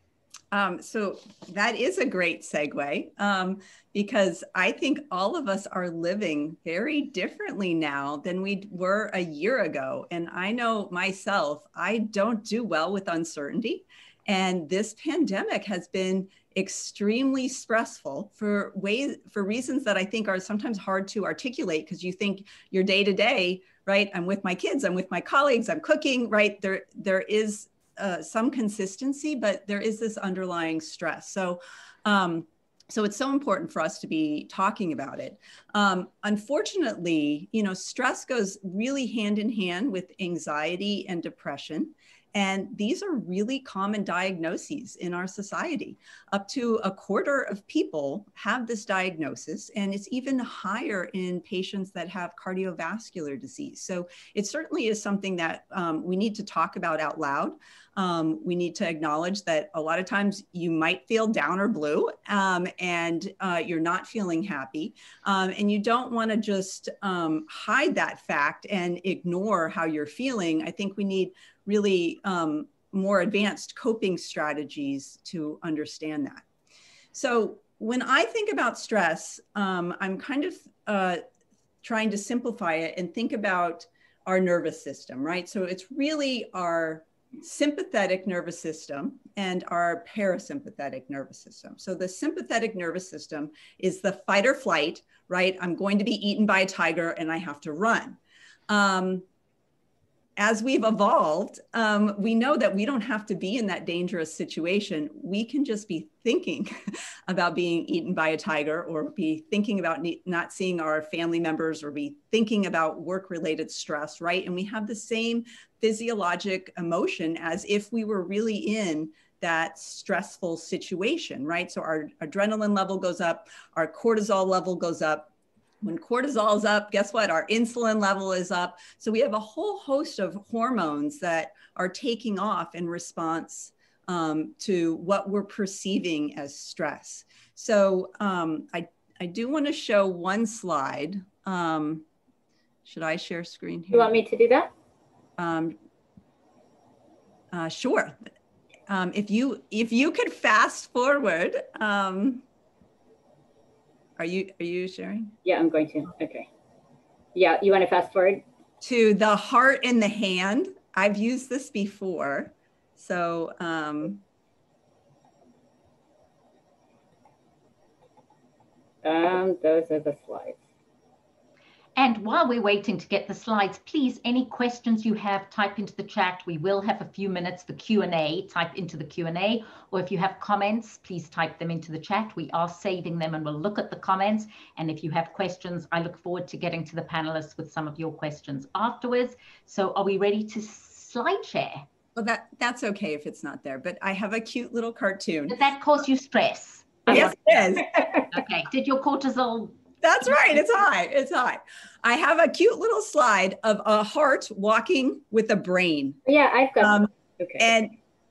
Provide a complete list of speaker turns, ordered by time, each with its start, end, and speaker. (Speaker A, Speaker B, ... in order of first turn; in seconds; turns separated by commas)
Speaker A: 0.5-76.4, Speaker A: 77.1-81.2, Speaker A: 81.8-99.3, Speaker A: 100.4-106.7, Speaker A: 107.3-125.3, Speaker A: 125.8-142.1, Speaker A: 142.8-144.1, Speaker B: 143.9-144.7, Speaker A: 145.4-145.8, Speaker A: 147.5-148.2, Speaker A: 148.9-152.4, Speaker A: 154.2-155.3, Speaker B: 155.4-156.5, Speaker B: 157.3-158.4, Speaker A: 158.8-164.2, Speaker B: 169.0-170.6, Speaker C: 172.0-191.9, Speaker A: 192.2-195.6, Speaker C: 195.5-199.8, Speaker A: 197.1-198.3, Speaker A: 200.0-206.2, Speaker B: 206.3-207.7, Speaker A: 206.8-207.9